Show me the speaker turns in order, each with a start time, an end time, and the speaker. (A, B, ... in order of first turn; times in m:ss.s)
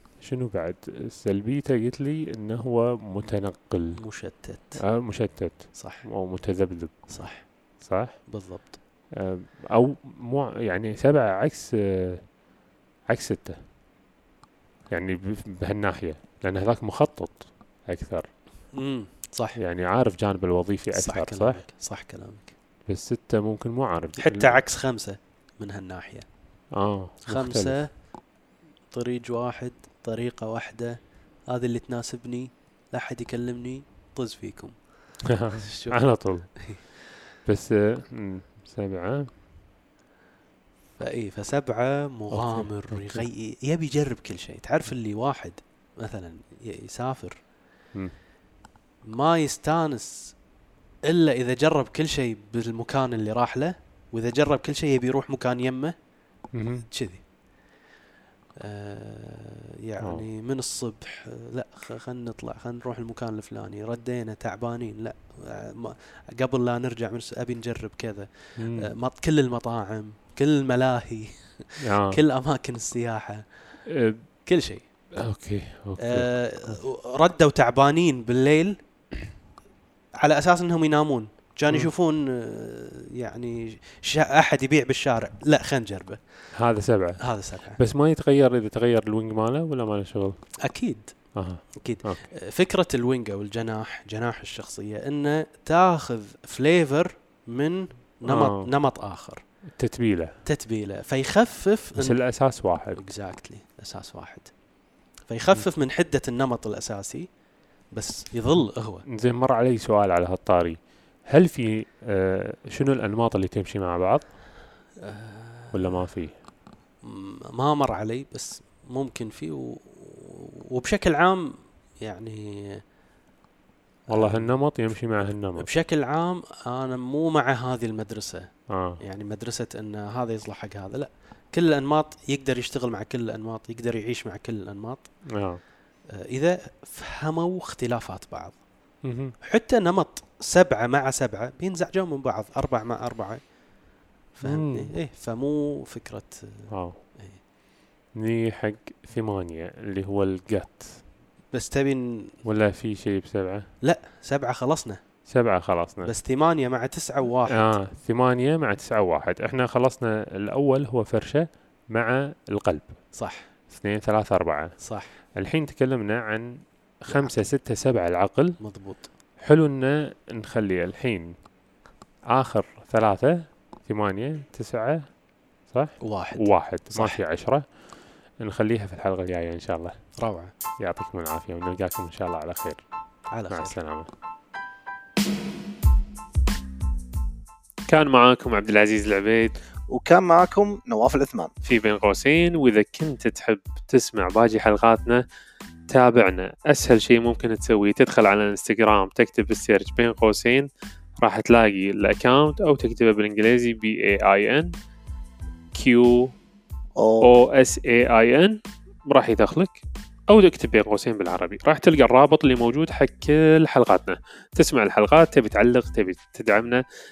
0:00.2-0:04.0 A
0:04.0-0:04.8 B
0:04.8-0:07.1 A
0:05.8-0:06.0 B
0:07.1-0:07.5 B
0:07.8-0:08.2 A
0:08.3-0:08.8 B
0:09.1-0:12.2 A
0:13.1-0:13.6 A
0:14.9-0:18.3 A
0:18.7-0:19.6 B
0:19.6-0:21.6 A
0:20.9-0:22.5 B
0:22.9-0:24.6 A
0:24.2-0:26.3 B
0:26.7-0:27.8 A
0:27.3-0:27.9 B
0:28.9-0:34.8 B
0:35.3-0:36.5 A
0:35.6-0:36.0 B
0:37.4-0:39.3 A
0:41.0-0:47.4 B
0:42.3-0:43.2 A
0:49.1-0:50.4 B
0:51.1-0:55.9 B
0:56.5-0:56.9 A
0:56.9-0:57.2 B
0:58.6-1:13.4 B
1:08.6-1:08.9 A
1:11.8-1:12.2 A
1:13.9-1:14.2 A
1:14.5-1:14.8 B
1:15.2-1:16.8 A
1:16.0-1:18.8 B
1:20.2-1:26.2 B
1:26.5-1:27.2 A
1:27.2-1:27.8 B
1:27.8-1:30.4 A
1:30.6-1:31.1 B
1:31.4-1:32.2 A
1:31.8-1:39.4 B
1:38.3-1:38.7 A
1:39.8-1:40.3 A
1:40.4-1:42.2 B
1:42.0-1:43.0 A
1:43.0-1:44.5 B
1:45.3-1:47.3 B
1:47.9-1:49.0 B
1:49.1-1:54.2 A
1:55.0-1:56.0 B
1:55.7-1:56.3 A
1:57.0-2:02.8 B
2:04.1-2:04.5 B
2:04.1-2:05.7 A
2:05.6-2:08.5 B
2:08.7-2:09.0 A
2:09.0-2:15.1 B
2:15.3-2:15.6 A
2:16.1-2:18.6 B
2:19.0-2:19.4 A
2:19.4-2:23.4 B
2:24.4-2:27.4 B
2:24.4-2:24.9 A
2:26.7-2:27.0 A
2:28.2-2:31.0 A
2:31.5-2:32.3 B
2:32.4-2:33.7 A
2:33.8-2:35.0 B
2:35.3-2:36.1 A
2:36.0-2:37.8 B
2:37.5-2:42.9 A
2:43.2-2:43.5 B
2:43.7-2:44.7 A
2:44.8-2:45.2 B
2:45.4-2:48.6 A
2:47.1-2:47.3 B
2:48.6-2:49.1 B
2:49.4-2:51.4 A
2:52.3-2:55.1 A
2:55.7-2:57.6 A
2:56.0-2:57.2 B
2:58.4-3:00.0 A
3:00.2-3:00.5 B
3:00.8-3:02.8 A
3:03.3-3:03.8 B
3:03.5-3:04.1 A
3:07.9-3:09.6 A
3:09.9-3:11.5 C
3:11.6-3:15.2 A
3:15.9-3:24.7 A
3:25.7-3:26.3 A
3:27.0-3:27.3 C
3:27.2-3:36.8 A